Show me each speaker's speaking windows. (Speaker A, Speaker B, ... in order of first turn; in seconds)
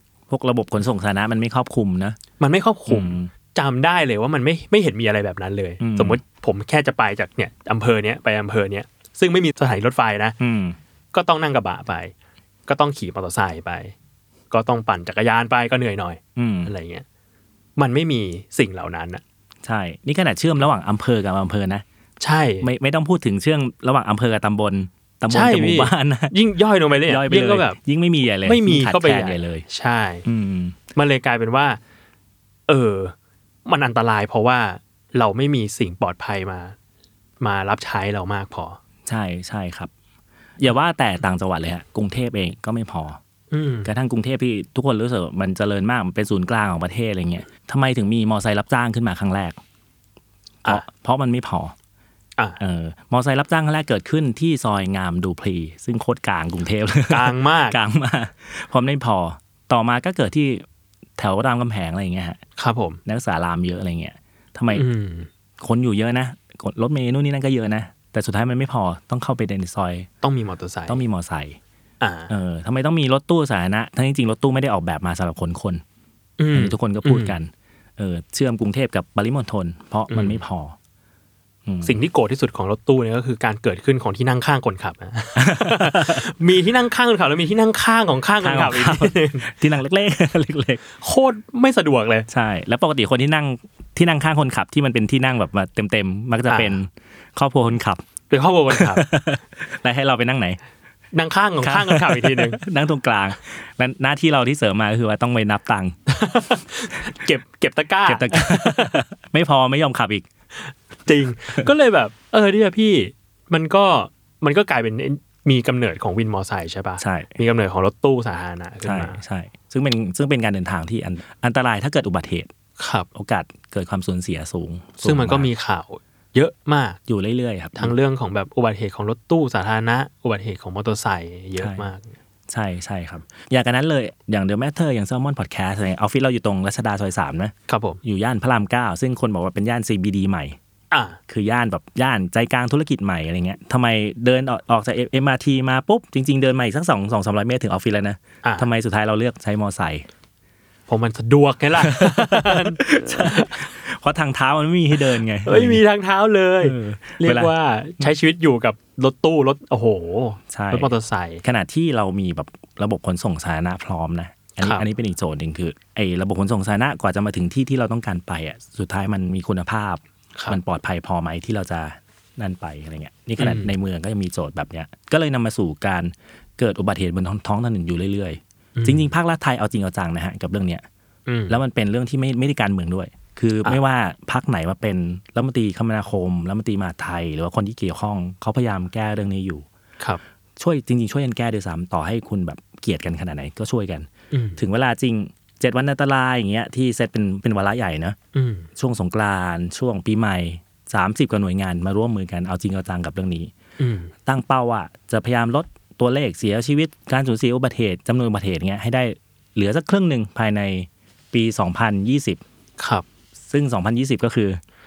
Speaker A: 0.3-2.2, 2.9-3.3, 5.8-6.2, 10.4-10.8, 16.4-16.7, 19.6-21.8, 22.6-26.3, 27.1-29.6, 30.3-30.8, 39.1-39.9, 40.6-43.2, 43.9-49.6, 50.6-51.8, 52.6-60.6, 61.2-62.4, 63.0-64.8, 65.6-70.1, 70.9-71.6, 72.3-75.8, 76.5-80.8, 81.7-82.0, 85.4-86.2, 88.4-90.8, 92.3-98.0, 98.7-100.6, 101.6-106.0, 108.1-110.3, 117.0-117.4, 118.8-122.5, 123.1-125.5, 127.1-128.0, 131.6-131.8, 132.5-140.6, 141.3-150.1, 151.8-155.8, 156.6-158.1, 160.5-180.8, 181.5-189.7, 190.6-198.2, 198.8-203.5, 204.3-212.4, 213.5-214.6
Speaker B: 2.4-10.4, 11.1-12.1, 12.7-13.9, 14.5-17.1, 17.8-19.2, 22.2-22.7, 25.3-27.8, 28.4-30.3, 30.9-31.8, 32.7-36.8, 37.4-38.8, 43.5-43.9, 57.1-57.8, 62.6-63.0, 64.7-65.3, 70.2-71.0, 72.0-72.3, 76.4-77.4, 80.1-80.4, 81.8-89.5, 91.0-92.3, 96.5-96.8, 98.3-99.0, 101.1-102.6, 106.1-109.0, 111.1-119.2, 122.8-123.1, 125.0-127.0, 127.8-132.1, 137.7-138.0, 140.9-141.2, 148.4-148.7, 150.9-153.6, 155.4-161.4, 164.6-164.9, 173.4-173.7, 178.8-179.1, 181.3-181.6, 194.3-194.6, 198.3-198.7, 203.8-204.1, 212.8-213.1